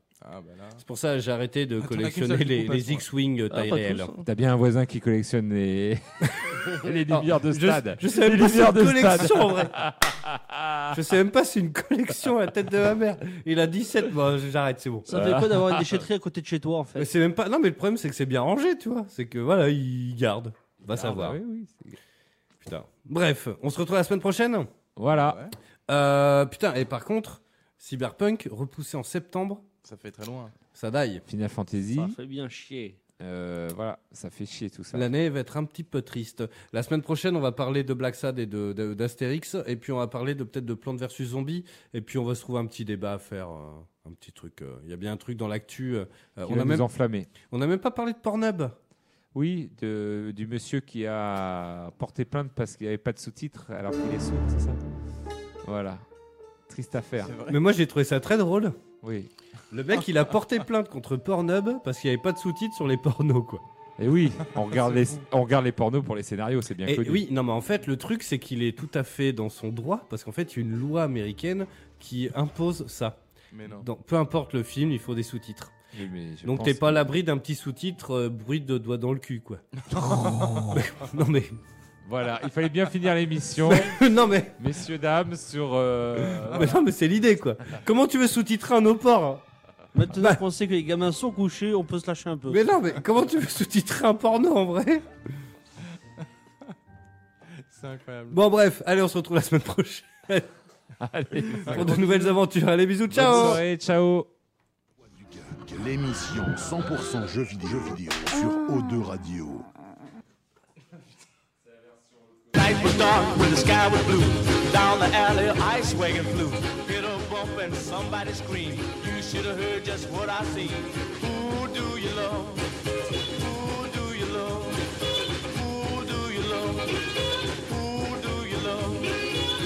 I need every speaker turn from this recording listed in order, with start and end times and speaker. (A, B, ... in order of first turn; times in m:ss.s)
0:00.2-0:00.8 A
0:00.8-0:04.1 B
0:01.8-0:03.0 A
0:03.5-0:04.2 C
0:04.2-0:11.0 D
0:06.2-0:09.8 B
0:10.9-0:15.2 B
0:15.1-0:17.1 C
0:15.1-0:16.0 D
0:17.0-0:21.4 B
0:20.9-0:22.0 D
0:22.6-0:24.7 B
0:25.0-0:25.4 D
0:25.2-0:25.5 A
0:25.9-0:29.6 B
0:29.8-0:30.5 A
0:30.7-0:31.2 B
0:31.2-0:32.2 D
0:31.9-0:33.0 C
0:33.2-0:35.1 D
0:34.9-0:46.8 B
0:46.4-0:47.3 D
0:47.5-0:48.7 B
0:49.3-0:54.8 D
0:55.6-0:56.0 D
0:56.7-0:57.3 D
0:57.2-0:57.6 A
0:57.5-0:58.8 B
0:59.0-0:59.3 D
0:59.7-1:03.6 B
1:04.0-1:07.2 D
1:04.5-1:05.2 A
1:06.8-1:13.2 B
1:13.5-1:13.9 A
1:13.8-1:15.7 B
1:15.9-1:17.1 D
1:16.4-1:19.6 B
1:19.9-1:20.6 A
1:19.9-1:20.9 D
1:20.7-1:21.6 B
1:22.0-1:26.8 D
1:23.6-1:24.5 B
1:26.4-1:29.4 B
1:29.9-1:32.6 C
1:32.5-1:35.1 B
1:37.6-1:38.4 A
1:38.3-1:40.5 B
1:41.0-1:42.0 D
1:41.6-1:43.6 B
1:41.7-1:42.2 A
1:43.1-1:44.3 D
1:45.0-1:49.7 E
1:52.5-2:02.7 F
2:03.3-2:09.3 F